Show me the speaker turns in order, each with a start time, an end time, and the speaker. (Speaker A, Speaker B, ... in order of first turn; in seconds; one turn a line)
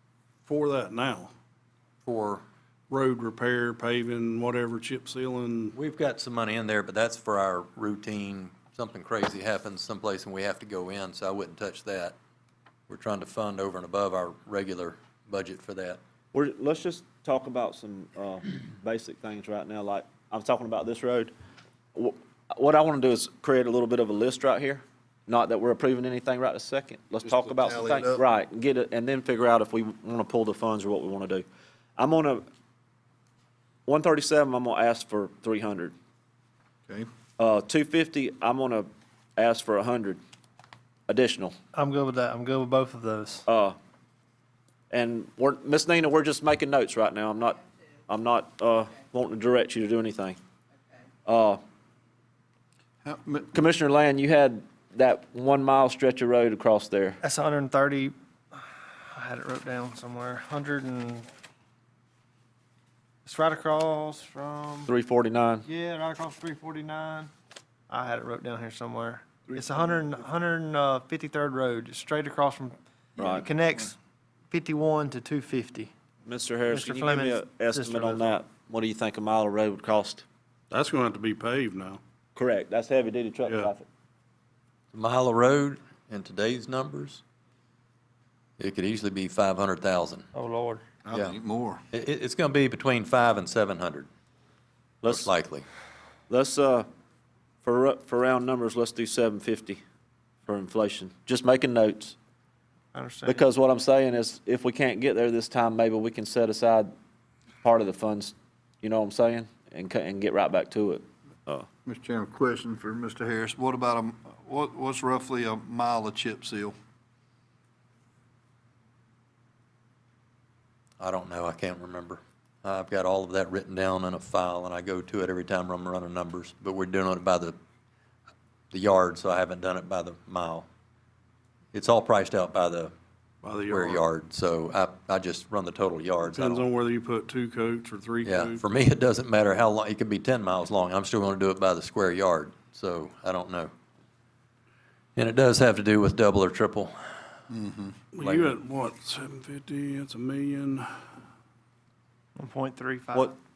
Speaker A: 0.4-1.3
Speaker B: 2.0-2.4
Speaker A: 2.9-5.7
Speaker B: 5.7-12.1
Speaker B: 12.9-16.0
Speaker C: 16.3-21.3
Speaker C: 21.9-31.4
Speaker D: 27.2-28.2
Speaker C: 32.0-32.4
Speaker C: 33.9-35.9
Speaker C: 37.4-40.2
Speaker C: 41.1-41.5
Speaker E: 41.7-43.5
Speaker C: 43.5-43.8
Speaker C: 44.9-50.4
Speaker C: 51.2-51.6
Speaker D: 53.0-53.5
Speaker C: 53.5-57.2
Speaker E: 57.2-58.6
Speaker E: 59.1-61.3
Speaker E: 63.2-64.9
Speaker C: 64.9-65.7
Speaker E: 65.7-67.3
Speaker E: 67.9-72.8
Speaker C: 73.2-73.5
Speaker E: 73.3-73.9
Speaker E: 74.5-75.9
Speaker C: 76.2-80.2
Speaker E: 76.7-78.3
Speaker A: 80.7-82.0
Speaker C: 82.3-83.8
Speaker A: 83.5-83.7
Speaker B: 84.9-87.2
Speaker B: 88.6-90.3
Speaker E: 90.3-90.8
Speaker D: 91.0-91.8
Speaker B: 91.1-91.3
Speaker B: 91.9-94.1
Speaker C: 95.0-95.3
Speaker B: 95.0-95.6
Speaker C: 96.3-96.9
Speaker C: 97.6-99.8
Speaker C: 100.5-102.2
Speaker E: 102.9-103.4
Speaker C: 103.2-106.9
Speaker C: 107.6-111.7
Speaker D: 111.8-116.7
Speaker B: 121.0-127.5
Speaker B: 128.7-130.7
Speaker B: 131.7-132.9
Speaker A: 133.4-134.0
Speaker B: 133.7-136.7
Speaker A: 136.2-138.6
Speaker B: 138.2-143.7
Speaker B: 145.2-146.9
Speaker D: 147.5-148.0
Speaker A: 148.1-150.9
Speaker E: 152.4-153.3